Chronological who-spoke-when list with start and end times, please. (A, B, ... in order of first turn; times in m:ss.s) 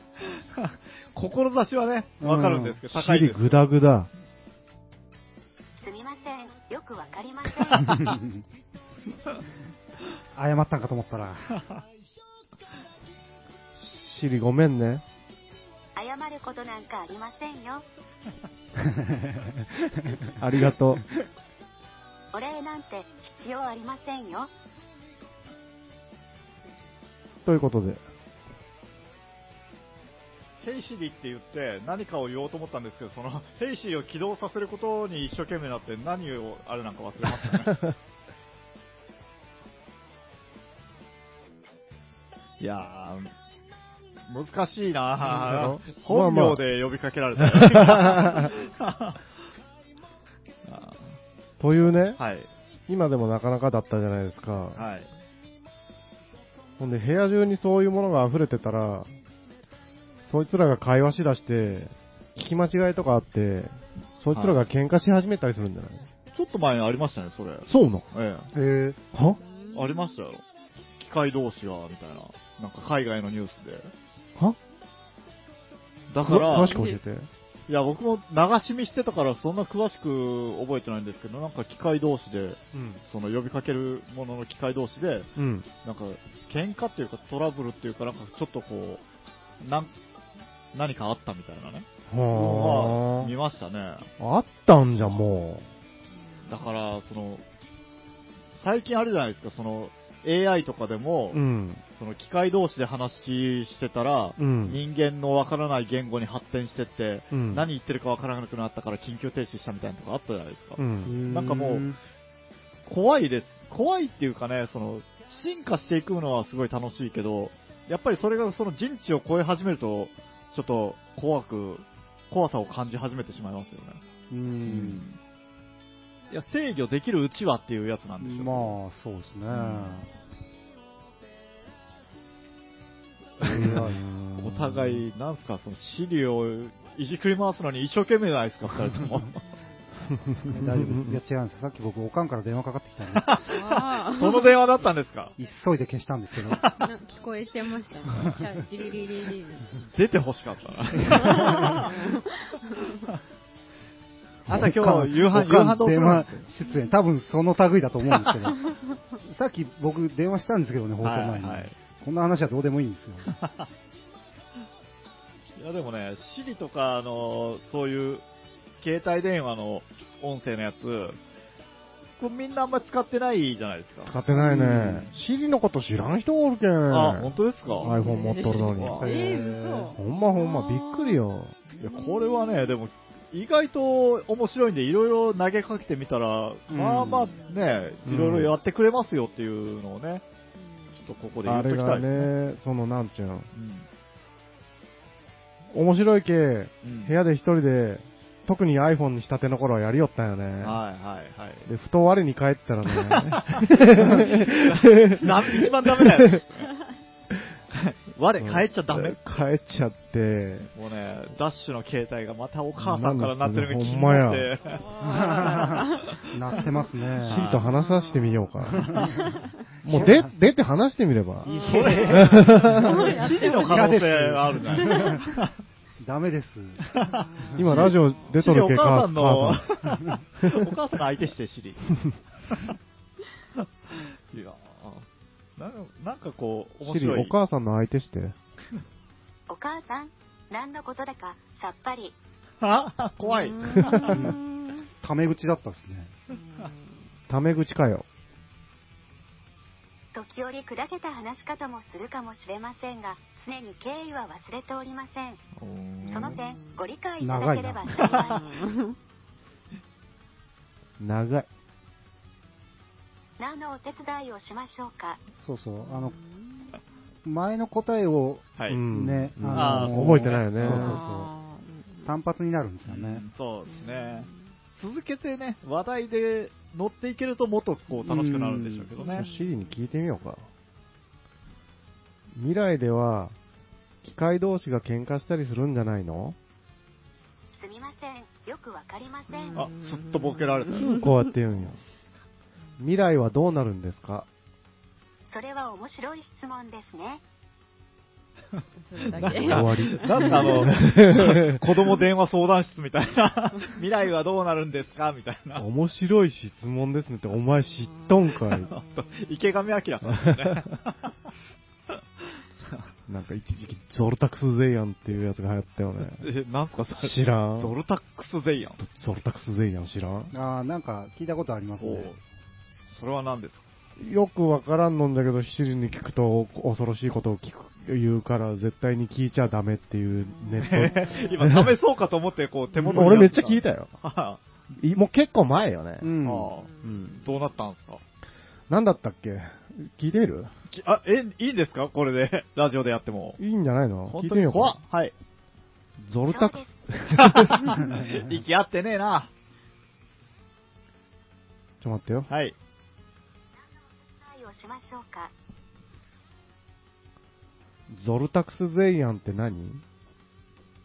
0:00.2-0:03.7 A
0:02.2-0:02.8 B
0:02.8-0:04.1 C
0:05.8-0:08.0 D
0:07.8-0:08.4 B
0:10.3-0:11.5 B
0:13.8-0:15.0 C
0:16.0-0:17.8 D
0:18.9-0:20.2 B
0:20.4-0:21.0 C
0:22.3-0:24.5 D
0:27.4-0:28.0 C
0:30.6-0:37.8 A
0:37.6-0:37.9 C
0:42.6-0:43.3 A
0:44.3-0:49.2 A
0:45.2-0:46.6 C
0:47.4-0:48.5 C
0:50.6-0:51.2 A
0:51.6-0:52.2 C
0:52.2-0:52.5 A
0:52.9-0:54.8 C
0:54.7-0:55.1 A
0:56.8-0:59.1 C
1:00.2-1:06.1 C
1:04.3-1:04.6 A
1:06.3-1:08.5 A
1:07.7-1:08.0 C
1:08.5-1:09.0 B
1:09.1-1:09.4 C
1:09.4-1:10.0 E
1:09.7-1:10.4 A
1:11.0-1:13.9 A
1:16.1-1:16.8 A
1:16.2-1:17.3 C
1:16.5-1:17.0 E
1:17.7-1:25.3 A
1:22.7-1:23.0 C
1:25.4-1:25.7 C
1:25.8-1:29.0 A
1:29.6-1:30.0 A
1:30.7-1:34.1 A
1:32.1-1:33.3 C
1:34.2-1:35.6 C
1:36.2-1:36.5 E
1:36.5-1:37.4 A
1:38.6-1:41.4 A
1:41.3-1:41.8 C
1:41.9-1:51.9 A
1:44.4-1:44.8 C
1:47.3-1:47.6 C
1:50.8-1:51.1 C
1:51.0-1:52.0 B
1:52.9-2:04.0 A
2:04.3-2:05.0 B
2:04.6-2:05.2 A
2:06.3-2:08.8 A
2:08.2-2:10.1 B
2:09.5-2:10.0 A
2:13.4-2:13.8 A
2:13.4-2:14.0 B
2:13.5-2:15.0 C
2:14.4-2:19.4 A
2:19.5-2:19.8 E
2:20.2-2:21.2 C
2:20.5-2:23.4 B
2:23.1-2:25.3 A
2:23.4-2:24.6 E
2:25.4-2:26.6 B
2:26.4-2:26.9 A
2:26.8-2:29.7 E
2:29.8-2:32.0 A
2:31.1-2:33.0 E
2:34.5-2:36.5 A
2:34.5-2:38.7 B
2:39.2-2:43.3 B
2:41.0-2:41.7 A
2:43.3-2:43.7 A
2:45.6-2:48.2 A
2:48.8-2:51.2 A
2:52.2-2:55.1 A
2:54.0-2:59.0 C
2:56.9-2:58.0 A
2:57.7-3:01.2 E
2:58.5-2:59.3 A
2:58.8-3:00.0 B
2:59.9-3:01.5 C
3:01.8-3:10.2 A
3:01.9-3:02.7 E
3:06.7-3:07.3 B
3:08.0-3:08.5 C
3:10.6-3:11.0 E
3:11.0-3:12.3 A
3:11.4-3:13.5 C
3:13.5-3:13.9 A
3:15.7-3:20.8 C
3:16.8-3:17.1 A
3:20.6-3:21.7 A
3:21.6-3:26.4 C
3:22.9-3:26.7 A
3:27.7-3:29.2 A
3:28.4-3:30.7 C
3:30.7-3:34.9 A
3:32.8-3:34.5 C
3:34.8-3:36.8 E
3:35.0-3:37.4 B
3:35.6-3:36.2 A
3:37.2-3:39.1 C
3:37.2-3:37.7 A
3:37.6-3:39.4 E
3:38.7-3:39.3 B
3:39.8-3:41.5 C
3:39.8-3:40.3 B
3:41.4-3:44.0 E
3:41.4-3:45.3 B
3:41.6-3:45.5 A
3:42.0-3:43.0 C
3:44.7-3:45.3 E
3:46.0-3:46.8 B
3:46.9-3:51.9 A
3:47.1-3:48.1 E
3:47.5-3:47.9 B
3:47.6-3:49.7 C
3:50.4-3:50.7 C
3:52.5-3:52.7 A
3:53.6-3:55.0 A
3:55.6-3:57.3 A
3:56.8-3:58.3 C
3:59.5-4:02.2 D
4:02.6-4:04.1 A
4:03.2-4:04.9 E
4:04.1-4:04.4 B
4:05.0-4:06.1 B
4:06.3-4:06.9 E
4:07.3-4:08.0 C
4:10.1-4:15.4 D
4:15.6-4:16.4 A
4:16.0-4:18.7 D
4:16.2-4:16.8 E
4:17.2-4:18.2 B
4:18.1-4:19.0 E
4:21.0-4:21.5 C
4:23.4-4:25.2 D
4:25.4-4:26.2 B
4:25.8-4:26.8 E
4:27.2-4:31.3 B
4:28.6-4:28.8 A
4:28.7-4:31.0 C
4:29.5-4:30.8 A
4:30.6-4:32.2 E
4:32.0-4:33.2 B
4:32.8-4:39.3 A
4:33.7-4:34.4 E
4:38.0-4:38.9 B
4:39.0-4:39.7 E
4:39.1-4:40.4 C
4:42.3-4:43.4 C
4:44.0-4:46.4 C
4:47.5-4:49.7 D
4:49.3-4:51.2 E
4:49.5-4:50.9 A
4:50.8-4:51.8 C
4:52.8-4:54.3 C
4:55.3-4:57.2 D
4:58.6-5:05.6 A
4:58.8-5:00.7 E
4:59.2-5:01.6 C
5:05.6-5:08.7 C
5:07.8-5:09.4 E
5:08.7-5:11.1 A
5:10.1-5:10.6 C
5:12.6-5:12.9 A
5:13.1-5:16.2 C
5:16.0-5:18.8 A
5:17.0-5:17.7 C
5:18.8-5:20.3 C
5:20.3-5:22.1 B
5:21.8-5:22.2 A
5:22.9-5:23.6 A
5:24.0-5:31.7 C
5:30.3-5:31.4 E
5:30.6-5:34.4 A
5:32.8-5:33.9 C
5:34.8-5:36.2 C
5:36.0-5:36.5 B
5:36.2-5:38.0 A
5:36.6-5:37.1 E
5:36.8-5:37.2 C
5:38.7-5:40.5 C
5:40.7-5:43.4 A
5:43.4-5:44.8 C
5:44.1-5:45.1 A
5:46.0-5:47.8 C
5:46.2-5:46.8 D
5:47.1-5:49.3 A
5:51.8-5:52.3 C
5:52.3-5:52.6 A
5:53.6-5:55.3 D
5:57.9-5:59.8 C